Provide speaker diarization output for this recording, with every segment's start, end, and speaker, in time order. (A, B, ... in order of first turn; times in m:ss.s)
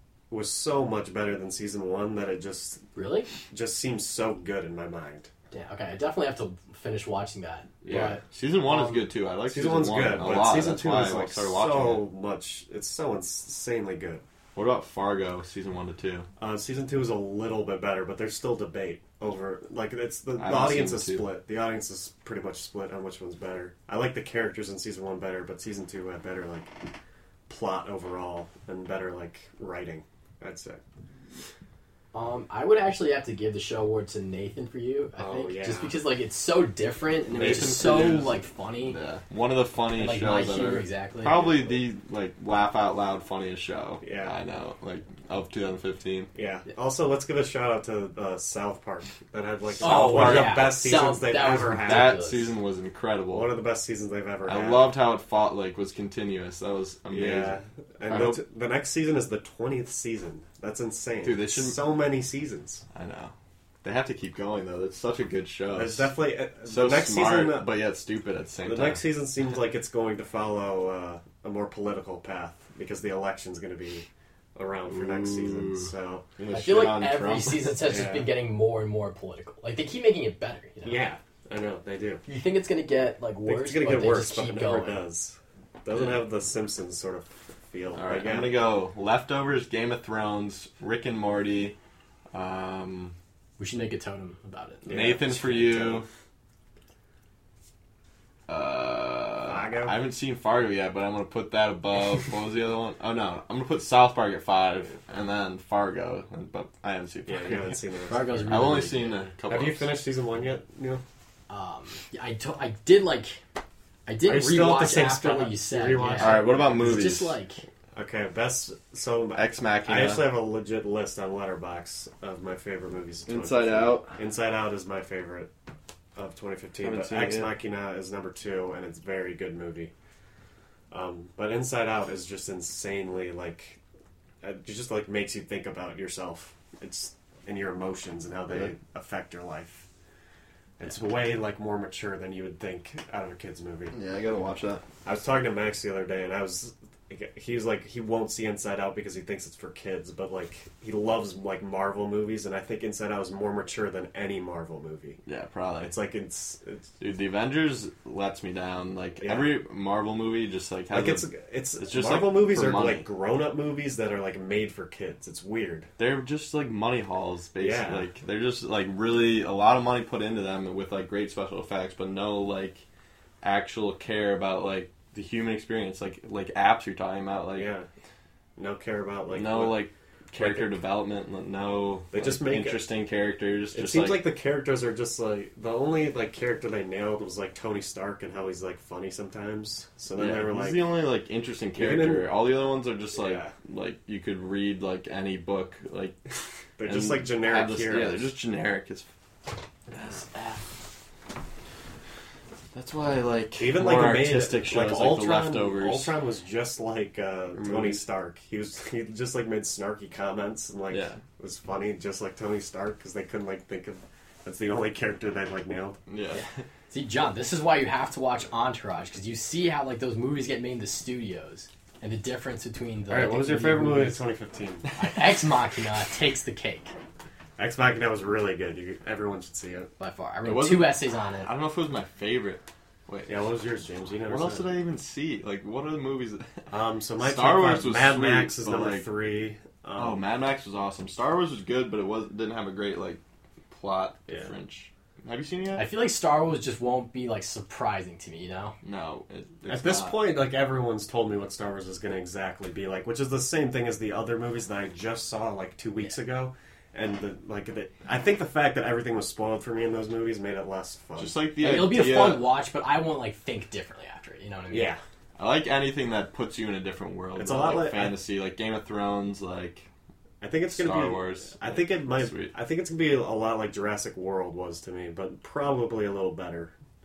0:00.3-0:02.8 A
0:03.0-0:03.3 B
0:03.5-0:05.3 A
0:05.5-0:09.1 B
0:07.8-0:12.1 C
0:09.5-0:14.2 A
0:14.6-0:16.3 C
0:16.4-0:26.8 A
0:20.4-0:21.3 C
0:27.5-0:30.8 A
0:32.1-0:39.0 B
0:35.2-0:36.0 A
0:37.3-0:46.3 C
0:40.0-0:41.5 B
0:41.4-0:41.7 A
0:44.0-0:44.4 A
0:46.4-0:52.2 A
0:49.8-0:50.8 C
0:49.8-0:52.6 B
0:51.8-0:53.5 C
0:53.3-0:54.9 A
0:54.5-0:58.4 C
0:57.1-1:02.8 A
1:01.2-1:01.8 C
1:02.9-1:09.0 C
1:05.7-1:07.7 A
1:08.6-1:16.3 A
1:14.9-1:17.9 C
1:16.5-1:21.1 B
1:17.8-1:18.3 A
1:20.8-1:22.2 A
1:22.3-1:25.0 B
1:23.4-1:28.6 A
1:25.9-1:26.2 C
1:28.0-1:31.8 C
1:32.3-1:33.2 C
1:33.6-1:35.3 B
1:34.8-1:36.1 A
1:34.9-1:36.1 C
1:38.5-1:47.8 C
1:39.4-1:40.0 A
1:47.3-1:48.9 A
1:48.1-1:49.2 B
1:48.5-1:50.0 C
1:49.4-1:51.0 A
1:51.5-1:53.4 B
1:54.1-1:57.6 B
1:54.2-1:57.0 A
1:56.2-1:57.4 C
1:58.0-2:05.5 A
1:59.4-2:00.3 C
2:03.3-2:04.2 C
2:06.2-2:09.9 A
2:06.8-2:07.5 C
2:10.9-2:13.8 A
2:14.4-2:19.9 A
2:20.8-2:24.0 A
2:23.9-2:24.8 C
2:25.0-2:35.2 A
2:35.3-2:35.9 C
2:35.8-2:36.9 A
2:37.0-2:43.1 C
2:39.2-2:39.6 A
2:40.9-2:45.9 A
2:46.0-2:52.8 C
2:47.6-2:48.1 A
2:53.4-2:57.7 C
2:57.6-2:57.9 A
2:58.6-3:00.8 A
2:59.3-3:04.3 C
3:02.1-3:02.9 A
3:03.7-3:10.9 A
3:10.2-3:16.2 C
3:11.8-3:12.3 A
3:13.2-3:13.5 A
3:16.8-3:18.3 A
3:16.8-3:19.1 C
3:19.9-3:20.6 C
3:22.7-3:26.1 C
3:23.6-3:36.0 A
3:27.5-3:28.0 C
3:30.9-3:31.2 C
3:36.1-3:36.5 C
3:36.3-3:44.3 B
3:43.1-3:44.9 A
3:45.0-3:47.0 B
3:47.6-3:49.9 A
3:50.0-3:51.5 B
3:50.4-3:53.4 C
3:53.3-3:54.7 A
3:54.3-3:59.1 C
3:56.7-4:00.2 A
4:00.0-4:05.9 C
4:05.8-4:08.8 B
4:08.8-4:10.3 C
4:09.7-4:21.4 A
4:21.2-4:22.4 C
4:21.6-4:25.0 B
4:24.7-4:25.0 A
4:25.4-4:29.9 C
4:27.4-4:28.2 A
4:30.4-4:36.7 A
4:30.7-4:32.5 C